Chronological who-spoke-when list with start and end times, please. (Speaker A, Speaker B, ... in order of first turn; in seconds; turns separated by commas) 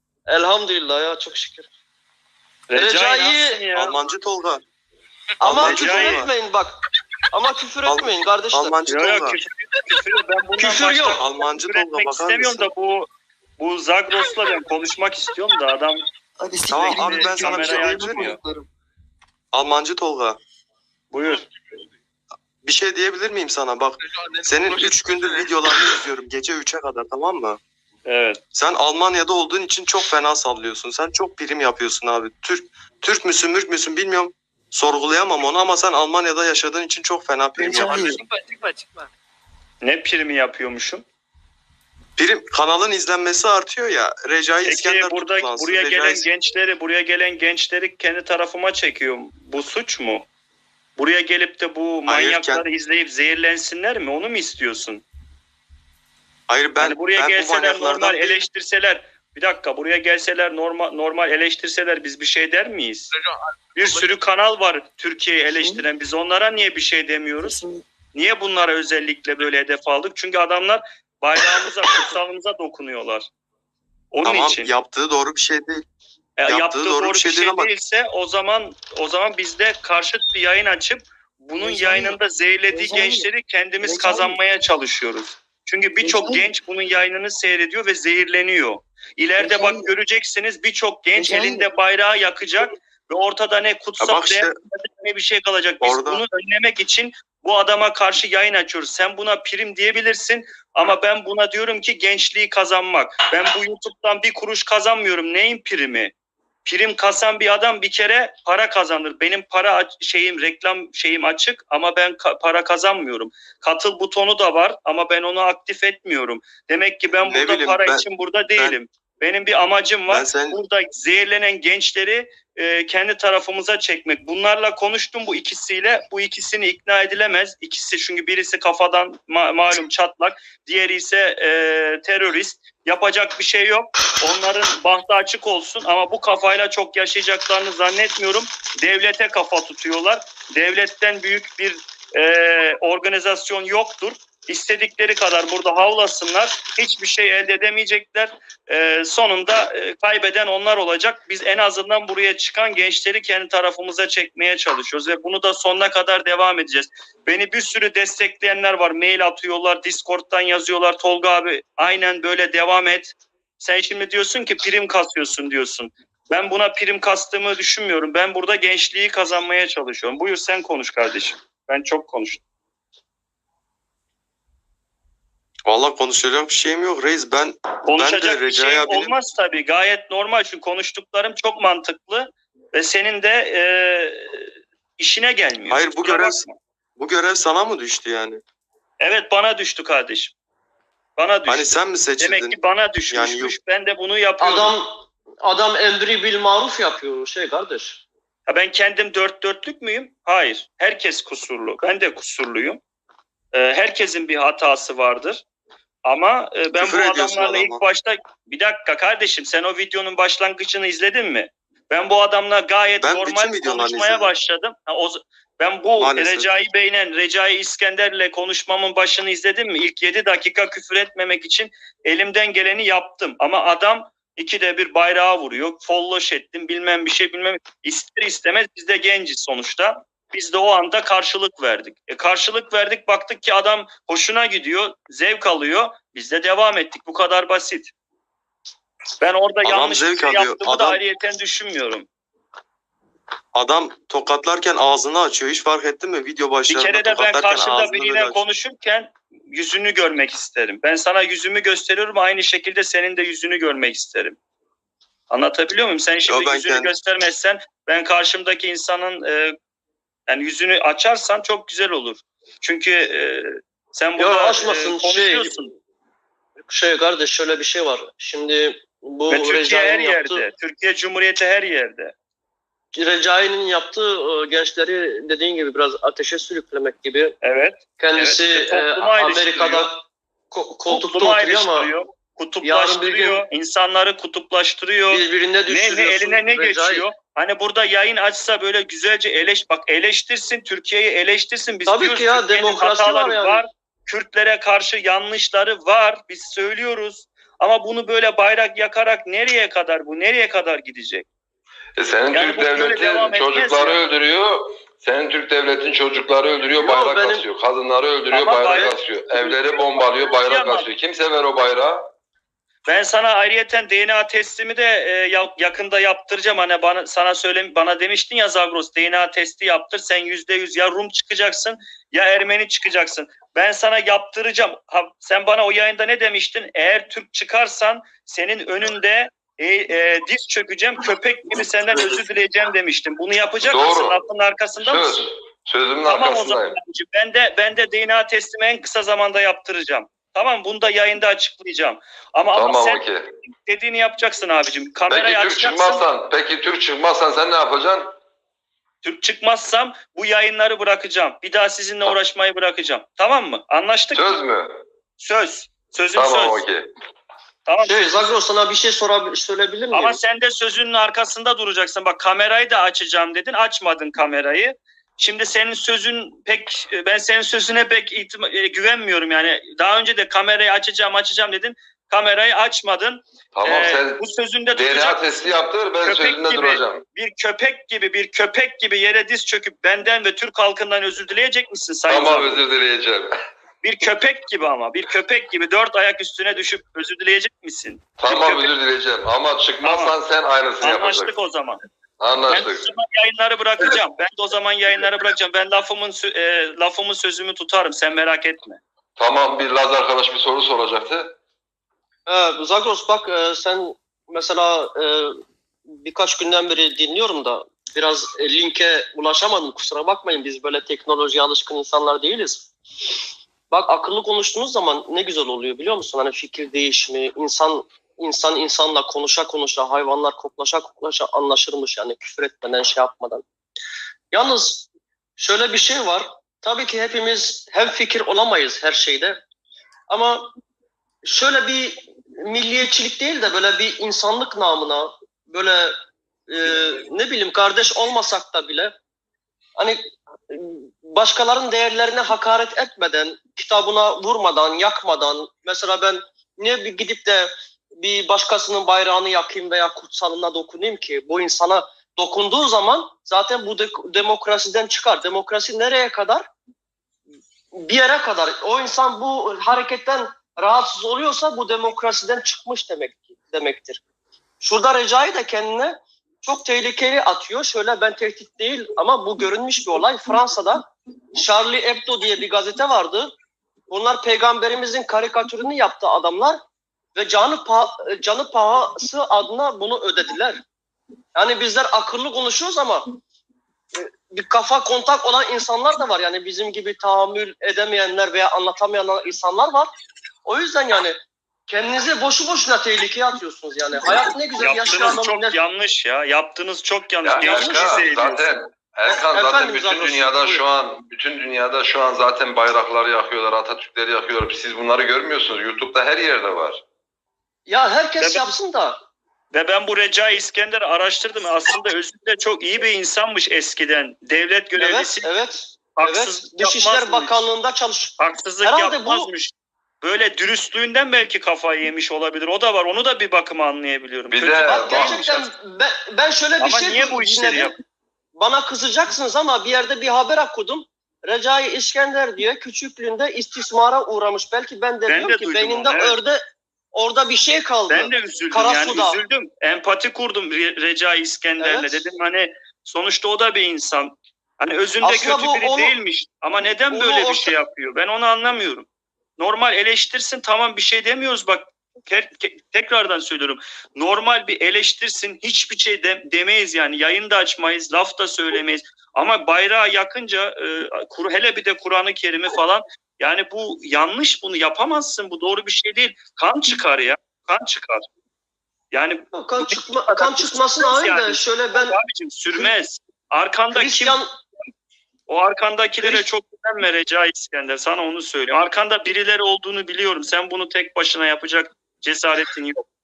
Speaker A: 0.3-1.7, Speaker B: 2.7-4.0, Speaker A: 2.8-3.6, Speaker C: 3.8-4.6, Speaker A: 5.4-6.8, Speaker C: 5.4-6.3, Speaker B: 5.4-6.3, Speaker A: 7.3-8.8, Speaker C: 7.8-9.4, Speaker B: 8.9-13.1, Speaker A: 10.6-11.2, Speaker C: 11.1-12.7, Speaker B: 13.6-16.0, Speaker C: 16.7-18.4, Speaker B: 16.9-18.4, Speaker C: 19.5-20.4, Speaker B: 21.1-21.5, Speaker C: 22.6-27.6, Speaker B: 28.1-28.4, Speaker C: 28.5-38.2, Speaker D: 37.6-39.1, Speaker B: 39.8-41.0, Speaker C: 42.2-46.2, Speaker B: 44.6-50.3, Speaker B: 51.0-55.0, Speaker C: 52.1-52.6, Speaker C: 56.5-58.4, Speaker B: 56.8-63.1, Speaker B: 63.8-73.3, Speaker B: 74.1-74.7, Speaker C: 74.2-75.8, Speaker B: 76.4-106.1, Speaker C: 76.5-77.7, Speaker D: 81.7-82.1, Speaker D: 89.6-89.8, Speaker C: 94.0-94.6, Speaker C: 95.8-96.2, Speaker B: 106.7-172.4, Speaker C: 117.3-118.0, Speaker C: 120.1-120.6, Speaker C: 175.7-179.1, Speaker B: 177.9-186.6, Speaker C: 185.7-186.4, Speaker C: 187.0-188.4, Speaker B: 189.0-190.3, Speaker B: 191.2-194.8, Speaker C: 191.5-192.6, Speaker C: 193.1-193.6, Speaker A: 194.4-198.0, Speaker B: 198.5-202.8, Speaker B: 203.5-205.4, Speaker B: 206.1-237.9, Speaker C: 206.8-207.8, Speaker C: 213.0-214.3, Speaker C: 216.0-216.5, Speaker B: 239.2-242.1, Speaker C: 239.6-241.0, Speaker C: 243.5-248.4, Speaker B: 246.7-254.4, Speaker B: 255.3-259.6, Speaker C: 256.3-256.9, Speaker B: 260.3-265.7, Speaker A: 264.2-265.6, Speaker A: 266.7-270.5, Speaker B: 269.3-272.1, Speaker A: 272.9-277.4, Speaker B: 277.4-279.9, Speaker A: 278.0-281.9, Speaker B: 280.9-301.3, Speaker A: 282.6-283.4, Speaker A: 285.1-287.1, Speaker A: 291.9-293.6, Speaker E: 302.0-312.1, Speaker B: 302.3-304.0, Speaker A: 306.8-307.5, Speaker B: 308.3-310.9, Speaker B: 312.9-335.3, Speaker E: 333.6-334.2, Speaker E: 334.8-336.8, Speaker B: 336.0-346.1, Speaker E: 342.5-343.3, Speaker E: 345.1-348.1, Speaker B: 349.0-354.4, Speaker E: 354.1-354.8, Speaker B: 355.2-356.6, Speaker E: 356.1-356.9, Speaker B: 357.7-358.3, Speaker A: 357.8-360.2, Speaker B: 359.9-382.6, Speaker E: 373.5-377.0, Speaker E: 382.1-383.4, Speaker B: 383.8-388.7, Speaker E: 388.2-391.3, Speaker B: 389.8-390.2, Speaker B: 390.8-391.8, Speaker E: 392.2-392.9, Speaker B: 392.5-398.8, Speaker E: 399.2-401.4, Speaker A: 402.3-412.7, Speaker A: 413.7-423.4, Speaker A: 424.3-429.4, Speaker A: 430.1-430.5, Speaker A: 431.2-436.0, Speaker A: 436.5-438.9, Speaker A: 439.8-456.5, Speaker A: 457.8-464.0, Speaker A: 464.6-473.4, Speaker A: 473.9-476.6, Speaker A: 477.1-480.6, Speaker A: 481.4-483.1, Speaker A: 483.9-489.9, Speaker A: 490.4-495.6, Speaker B: 494.6-498.5, Speaker E: 497.2-506.8, Speaker A: 497.4-498.1, Speaker A: 499.1-500.6, Speaker A: 507.7-509.0, Speaker B: 508.2-508.5, Speaker B: 509.5-515.3, Speaker A: 514.8-519.3, Speaker B: 516.0-517.4, Speaker B: 518.2-525.5, Speaker E: 524.3-525.4, Speaker A: 524.6-527.7, Speaker B: 526.6-527.8, Speaker A: 528.4-539.2, Speaker B: 535.1-536.2, Speaker B: 537.9-548.9, Speaker A: 541.6-542.0, Speaker A: 545.0-545.9, Speaker A: 546.9-547.5, Speaker B: 549.4-568.1, Speaker B: 568.9-574.2, Speaker A: 569.3-572.0, Speaker A: 573.7-574.3, Speaker B: 575.3-582.9, Speaker A: 576.0-576.2